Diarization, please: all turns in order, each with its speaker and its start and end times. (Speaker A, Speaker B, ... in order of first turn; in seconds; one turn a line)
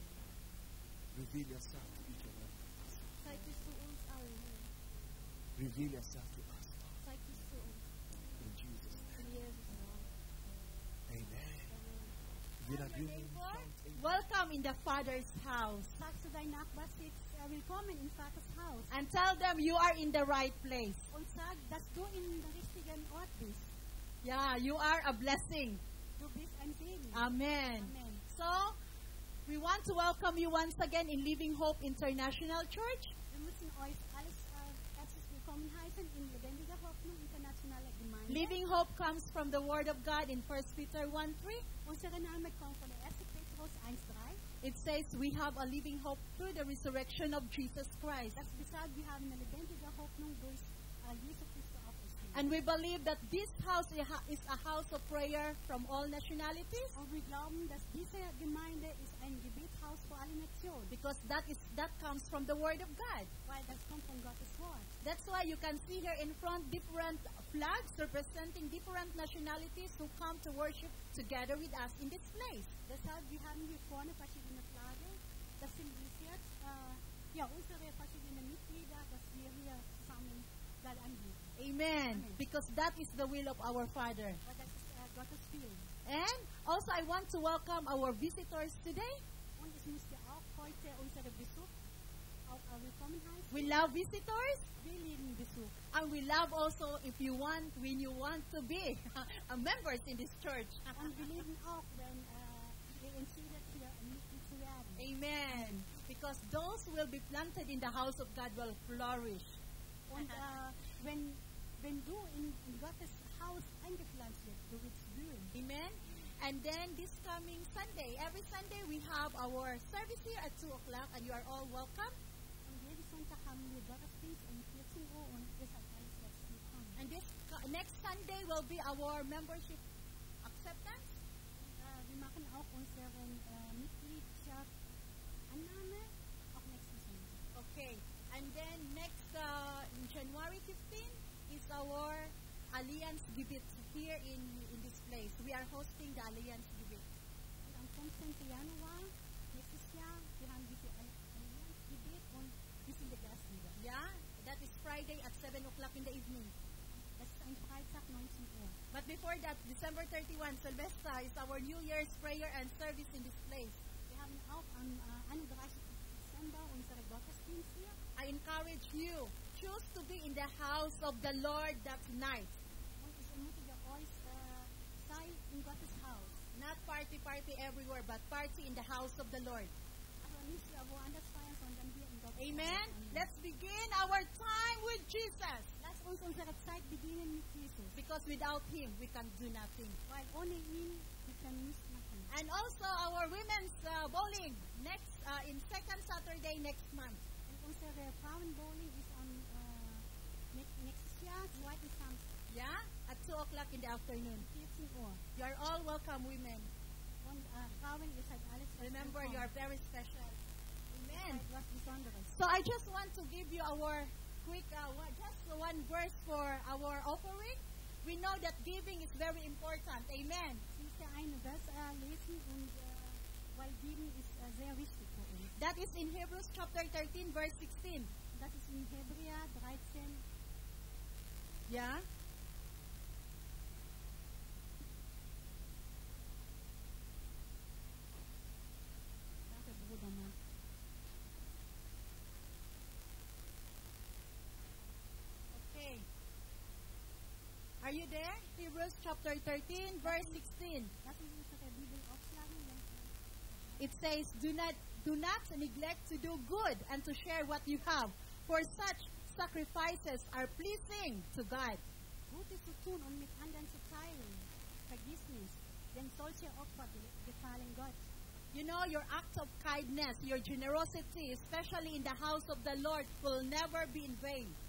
Speaker A: 1.1-3.2
Speaker B: 3.2-4.7
Speaker A: 5.6-7.0
Speaker B: 7.0-7.9
Speaker A: 8.4-9.3
Speaker B: 9.2-10.1
Speaker A: 11.1-11.8
Speaker B: 11.7-12.2
Speaker A: 12.6-14.2
Speaker C: 12.7-16.0
Speaker D: 16.0-18.9
Speaker C: 18.9-21.1
Speaker D: 21.1-23.8
Speaker C: 24.2-25.8
Speaker D: 26.2-28.2
Speaker C: 27.1-28.8
Speaker C: 29.5-33.1
Speaker D: 33.3-38.6
Speaker C: 38.3-41.7
Speaker D: 41.8-44.4
Speaker C: 44.6-48.4
Speaker D: 48.3-52.6
Speaker C: 52.3-57.0
Speaker D: 56.9-61.0
Speaker C: 60.9-63.3
Speaker D: 63.5-64.9
Speaker C: 65.0-72.7
Speaker D: 72.9-81.5
Speaker C: 81.6-84.4
Speaker D: 82.1-82.4
Speaker D: 84.4-85.9
Speaker C: 86.1-89.2
Speaker D: 89.6-91.7
Speaker D: 92.5-93.8
Speaker C: 93.5-94.7
Speaker D: 94.8-95.8
Speaker C: 95.9-101.3
Speaker D: 100.9-105.9
Speaker C: 105.0-109.6
Speaker D: 110.1-115.5
Speaker C: 110.2-110.5
Speaker C: 115.5-122.2
Speaker D: 122.7-127.0
Speaker C: 127.0-129.8
Speaker C: 130.4-131.2
Speaker D: 131.6-134.7
Speaker D: 135.5-137.4
Speaker C: 137.6-147.1
Speaker D: 147.6-153.8
Speaker C: 153.8-156.5
Speaker D: 156.9-158.8
Speaker C: 158.9-163.8
Speaker D: 164.1-168.0
Speaker C: 168.2-172.6
Speaker D: 173.0-176.4
Speaker C: 176.5-179.7
Speaker D: 180.2-183.3
Speaker C: 182.4-185.7
Speaker D: 185.8-188.0
Speaker C: 187.9-190.0
Speaker D: 190.1-192.3
Speaker C: 192.3-197.2
Speaker D: 197.5-202.3
Speaker C: 202.5-204.5
Speaker D: 204.3-205.2
Speaker C: 205.4-206.7
Speaker D: 207.2-209.5
Speaker C: 208.8-210.4
Speaker C: 210.9-211.4
Speaker D: 211.1-212.3
Speaker C: 212.3-220.6
Speaker D: 220.7-225.5
Speaker C: 225.6-228.1
Speaker D: 228.3-230.2
Speaker C: 231.7-232.1
Speaker D: 239.5-240.4
Speaker C: 245.5-246.1
Speaker C: 247.8-250.9
Speaker D: 250.0-250.4
Speaker D: 251.0-253.9
Speaker C: 253.8-261.8
Speaker D: 262.3-268.0
Speaker C: 268.5-274.6